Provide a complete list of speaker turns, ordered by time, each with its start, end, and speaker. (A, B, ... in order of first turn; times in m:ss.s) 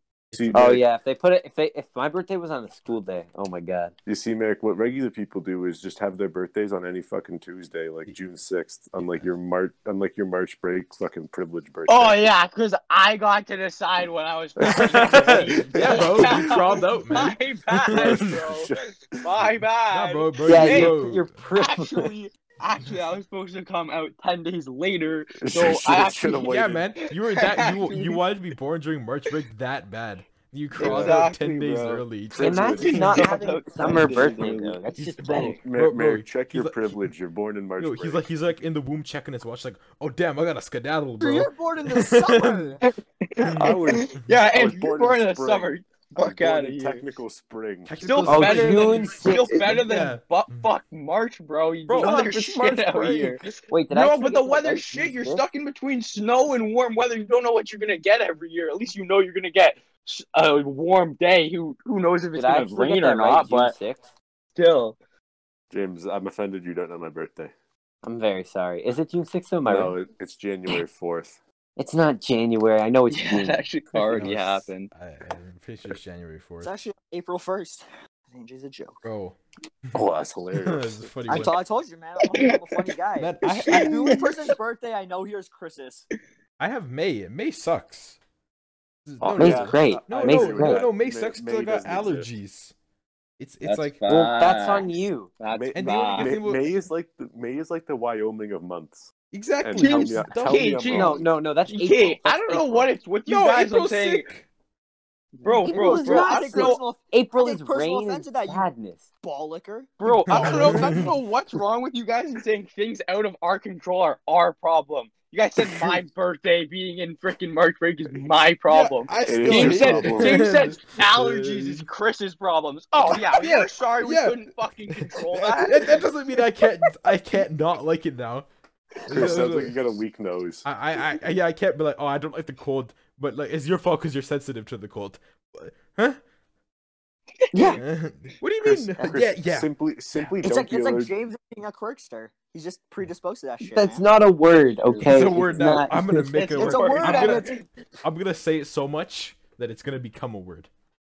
0:00.3-0:00.8 A
0:00.3-0:00.8 B
0:00.5-0:03.9 C
0:04.0-0:12.3 B
0:11.9-0:21.0 D
0:14.6-0:16.6 B
0:14.6-0:18.4 A
0:17.9-0:19.5 B
0:19.9-0:21.4 A
0:20.4-0:22.1 C
0:21.5-0:26.5 D
0:25.4-0:26.9 B
0:26.4-0:33.4 A
0:27.1-0:28.2 D
0:30.8-0:32.0 D
0:30.8-0:31.3 B
0:32.3-0:34.6 B
0:32.4-0:35.6 C
0:32.8-0:34.8 D
0:35.0-0:37.1 A
0:35.3-0:38.2 B
0:37.8-0:42.8 A
0:41.2-0:42.8 E
0:42.8-0:47.0 D
0:43.5-0:44.2 A
0:43.6-0:47.9 B
0:47.8-0:50.7 A
0:48.0-1:03.8 D
0:48.2-0:49.8 C
0:51.9-0:53.4 E
0:53.7-0:55.4 C
1:02.3-1:04.0 C
1:04.6-1:05.0 D
1:05.7-1:07.5 B
1:08.0-1:09.9 C
1:09.6-1:11.4 B
1:11.8-1:13.6 C
1:13.1-1:14.9 D
1:13.9-1:16.8 A
1:16.6-1:19.0 E
1:19.0-1:20.0 A
1:19.9-1:21.1 B
1:20.6-1:21.6 A
1:21.3-1:26.0 E
1:22.2-1:22.9 D
1:23.2-1:24.3 A
1:23.4-1:24.5 D
1:26.6-1:28.2 A
1:29.0-1:32.7 A
1:29.2-1:32.3 B
1:29.4-1:30.8 C
1:33.4-1:34.0 A
1:33.6-1:36.4 D
1:34.0-1:35.3 C
1:35.5-1:41.3 B
1:35.7-1:36.8 A
1:39.3-1:41.0 A
1:39.8-1:44.3 D
1:40.9-1:42.9 C
1:43.2-1:44.4 A
1:45.4-1:46.8 D
1:45.7-1:49.0 C
1:45.7-1:48.6 E
1:49.2-1:50.5 E
1:50.0-2:06.0 D
1:50.3-1:51.1 A
1:55.6-1:56.0 A
1:58.7-2:01.8 A
1:59.2-2:00.8 B
2:03.1-2:08.4 A
2:09.0-2:09.8 A
2:09.1-2:10.6 B
2:10.6-2:16.2 A
2:17.5-2:17.8 E
2:17.8-2:20.3 A
2:18.6-2:21.1 B
2:20.4-2:24.0 E
2:23.6-2:26.4 C
2:25.0-2:30.7 A
2:26.2-2:27.6 D
2:26.6-2:27.6 E